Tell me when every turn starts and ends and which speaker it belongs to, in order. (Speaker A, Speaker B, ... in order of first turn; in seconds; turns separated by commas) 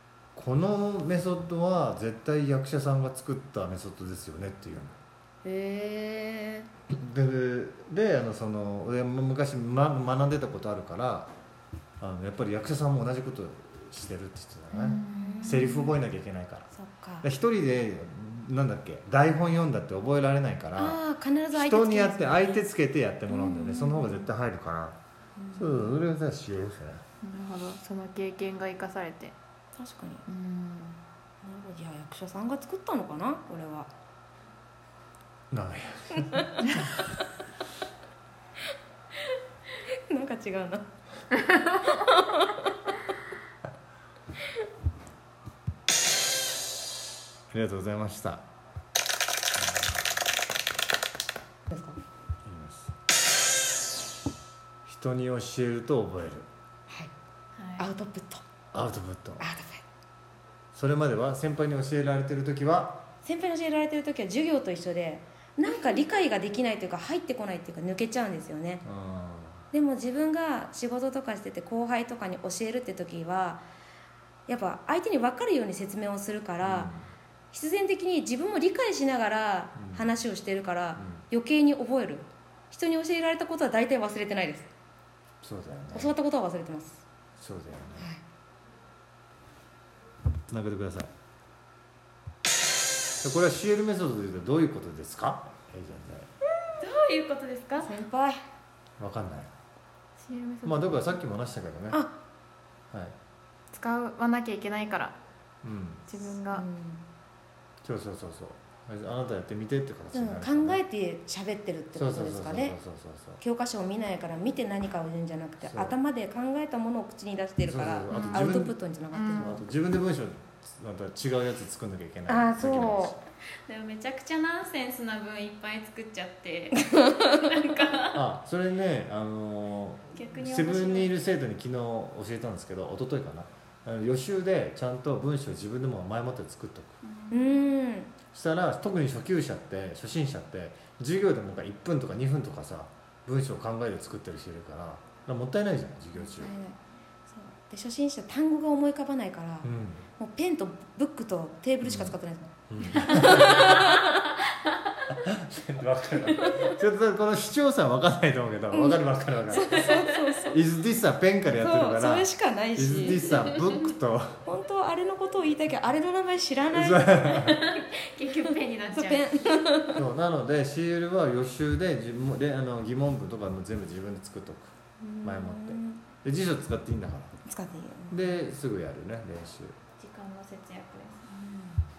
Speaker A: 0.3-5.0, Speaker B: 5.4-6.7, Speaker A: 6.9-11.3, Speaker A: 12.0-16.7, Speaker C: 14.7-15.9, Speaker B: 15.1-15.8, Speaker B: 16.7-17.3, Speaker A: 17.2-21.0, Speaker B: 20.8-22.7, Speaker A: 21.5-25.0, Speaker B: 23.3-24.2, Speaker B: 25.4-25.8, Speaker A: 25.6-27.0, Speaker C: 27.2-29.4, Speaker B: 29.8-30.2, Speaker C: 30.3-31.0, Speaker B: 31.4-33.9, Speaker A: 35.5-36.5, Speaker B: 36.2-36.8, Speaker B: 39.9-40.9, Speaker B: 41.7-42.9, Speaker A: 47.5-48.4, Speaker A: 49.6-50.0, Speaker B: 51.7-52.0, Speaker A: 52.5-52.9, Speaker A: 54.9-56.5, Speaker C: 57.6-57.9, Speaker B: 57.8-58.4, Speaker A: 58.7-59.5, Speaker B: 59.4-59.8, Speaker A: 60.7-63.0, Speaker B: 63.2-68.8, Speaker A: 68.8-69.6, Speaker B: 69.7-73.6, Speaker B: 74.5-76.9, Speaker A: 76.6-77.0, Speaker B: 77.5-84.7, Speaker A: 79.8-80.1, Speaker A: 85.4-86.2, Speaker B: 85.9-87.0, Speaker A: 87.4-88.1, Speaker B: 88.0-88.2, Speaker A: 90.5-91.1, Speaker A: 93.2-96.3, Speaker C: 96.8-97.9, Speaker B: 97.8-98.4, Speaker A: 99.0-99.5, Speaker C: 100.2-101.2, Speaker A: 100.7-102.0, Speaker B: 101.9-102.2, Speaker C: 103.7-105.2, Speaker A: 105.6-106.0, Speaker C: 106.1-106.7, Speaker B: 106.5-107.0, Speaker A: 107.8-110.8, Speaker B: 110.1-112.8, Speaker A: 112.0-113.4, Speaker B: 113.4-119.6, Speaker A: 115.6-116.0, Speaker A: 117.6-118.8, Speaker C: 118.1-118.4, Speaker C: 119.1-119.6, Speaker A: 119.3-123.2, Speaker B: 122.3-123.2, Speaker C: 123.7-128.2, Speaker B: 126.9-127.4, Speaker A: 128.1-137.0, Speaker C: 130.1-131.1, Speaker C: 137.0-137.6, Speaker B: 137.3-138.2, Speaker A: 138.3-146.5, Speaker B: 146.2-154.4, Speaker A: 149.6-150.0, Speaker A: 151.8-152.2, Speaker A: 152.7-153.9, Speaker A: 155.1-164.4, Speaker B: 156.4-156.7, Speaker B: 158.7-160.6, Speaker B: 161.6-163.6, Speaker B: 164.4-167.7, Speaker A: 166.7-167.6, Speaker C: 167.4-169.3, Speaker B: 168.9-170.0, Speaker A: 169.9-174.7, Speaker B: 175.0-176.0, Speaker A: 175.2-177.4, Speaker B: 177.4-178.2, Speaker A: 178.1-179.8, Speaker C: 180.0-181.3, Speaker B: 181.4-181.8